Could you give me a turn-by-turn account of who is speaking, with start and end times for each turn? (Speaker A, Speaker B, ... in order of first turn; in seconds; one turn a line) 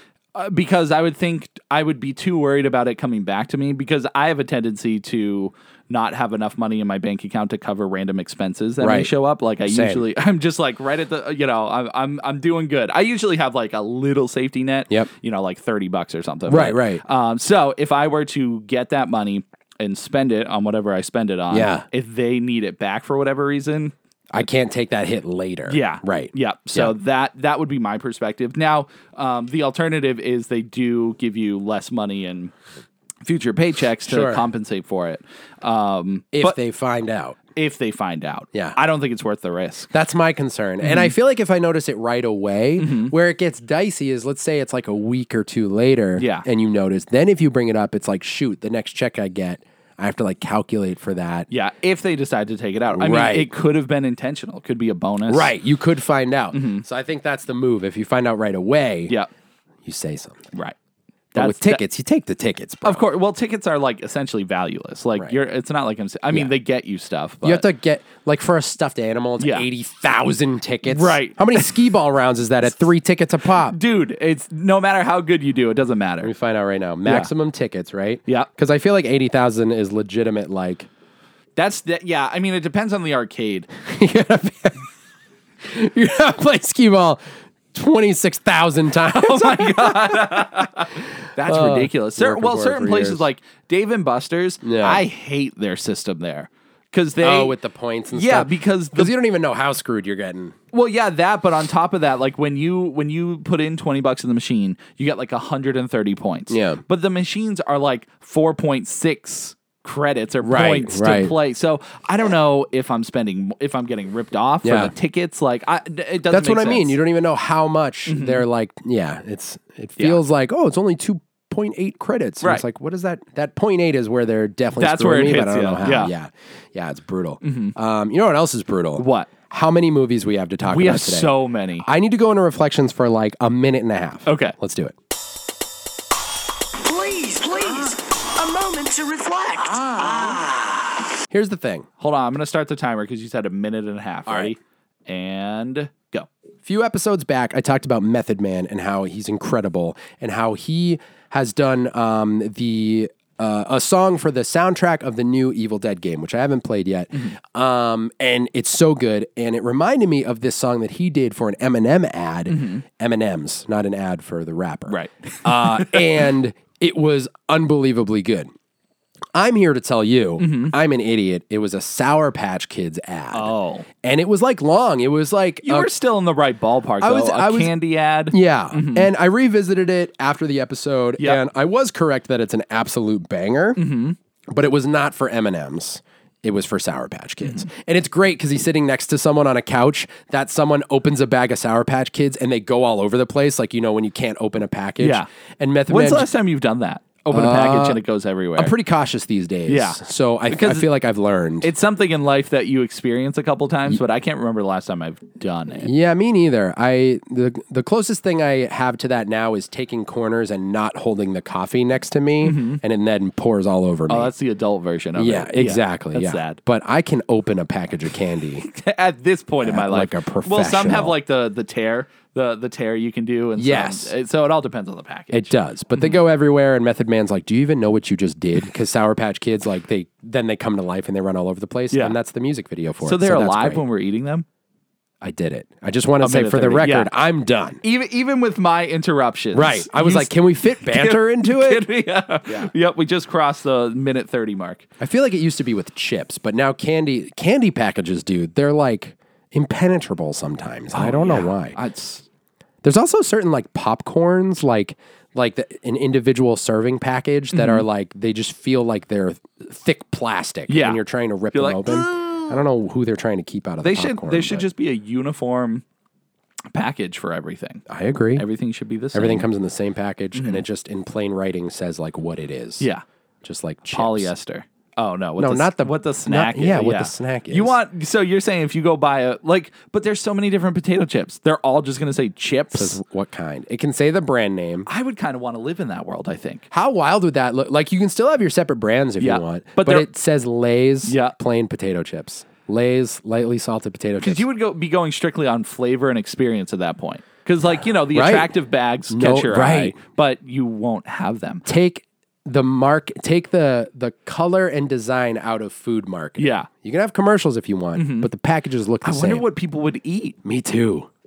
Speaker A: 0.3-23.9
Speaker B: 8.8-9.1
Speaker B: 9.7-10.1
Speaker B: 16.5-17.0
Speaker B: 21.5-21.9
Speaker B: 24.3-26.9
Speaker A: 25.7-32.5
Speaker A: 33.2-36.6
Speaker B: 34.1-34.4
Speaker B: 36.3-37.4
Speaker A: 37.6-39.9
Speaker B: 39.9-51.5
Speaker A: 40.8-41.1
Speaker A: 42.8-43.1
Speaker A: 46.2-46.5
Speaker A: 51.5-55.5
Speaker B: 52.9-53.5
Speaker B: 55.3-59.1
Speaker A: 56.5-56.9
Speaker B: 59.9-60.5
Speaker A: 61.4-61.8
Speaker B: 61.4-63.0
Speaker A: 62.8-67.7
Speaker B: 67.4-73.8
Speaker A: 69.4-69.7
Speaker A: 70.9-71.9
Speaker A: 73.5-76.3
Speaker B: 76.2-80.9
Speaker A: 81.6-83.7
Speaker B: 83.8-84.9
Speaker B: 85.6-87.2
Speaker B: 87.7-90.7
Speaker A: 89.1-97.6
Speaker B: 91.4-93.2
Speaker B: 94.6-95.0
Speaker B: 97.2-100.5
Speaker A: 98.1-99.1
Speaker A: 100.7-117.0
Speaker B: 106.5-106.8
Speaker B: 110.4-111.3
Speaker B: 114.6-114.9
Speaker B: 116.3-134.9
Speaker A: 118.1-118.5
Speaker A: 124.8-126.1
Speaker A: 127.4-127.7
Speaker A: 129.0-129.3
Speaker A: 130.7-131.9
Speaker A: 134.3-134.6
Speaker C: 136.8-140.6
Speaker B: 141.3-141.9
Speaker A: 142.0-146.3
Speaker B: 144.3-144.5
Speaker B: 146.7-168.5
Speaker A: 162.5-162.8
Speaker A: 164.9-166.3
Speaker B: 169.3-175.9
Speaker A: 170.4-170.8
Speaker A: 173.3-173.9
Speaker A: 175.6-179.1
Speaker B: 177.0-177.7
Speaker B: 178.3-183.8
Speaker A: 183.8-184.2
Speaker B: 184.5-196.3
Speaker A: 187.4-187.7
Speaker A: 195.0-195.3
Speaker A: 195.9-198.7
Speaker B: 197.3-198.0
Speaker B: 198.6-201.7
Speaker A: 199.7-200.9
Speaker A: 201.6-205.9
Speaker B: 205.8-214.3
Speaker A: 212.4-212.8
Speaker A: 214.1-216.6
Speaker B: 215.2-218.7
Speaker A: 218.7-226.2
Speaker B: 219.6-221.2
Speaker B: 223.6-224.1
Speaker B: 225.3-233.8
Speaker A: 231.9-232.2
Speaker A: 233.0-234.5
Speaker B: 235.2-237.8
Speaker A: 236.2-237.1
Speaker A: 237.8-244.9
Speaker B: 239.5-241.8
Speaker B: 245.0-251.8
Speaker A: 250.9-252.2
Speaker B: 252.8-264.7
Speaker A: 257.5-257.9
Speaker A: 260.7-261.0
Speaker A: 261.5-262.6
Speaker A: 263.8-265.8
Speaker A: 266.7-267.8
Speaker B: 267.9-268.4
Speaker A: 268.4-269.5
Speaker B: 269.1-272.9
Speaker A: 270.4-270.6
Speaker B: 273.4-274.3
Speaker A: 273.9-283.0
Speaker B: 275.4-277.8
Speaker B: 282.7-284.9
Speaker A: 284.9-286.6
Speaker B: 286.7-294.4
Speaker A: 289.2-290.1
Speaker A: 291.1-291.4
Speaker A: 294.2-301.6
Speaker B: 298.1-298.5
Speaker B: 299.1-300.0
Speaker B: 301.6-309.5
Speaker A: 306.4-306.7
Speaker A: 307.9-308.3
Speaker A: 309.0-310.4
Speaker B: 310.4-311.1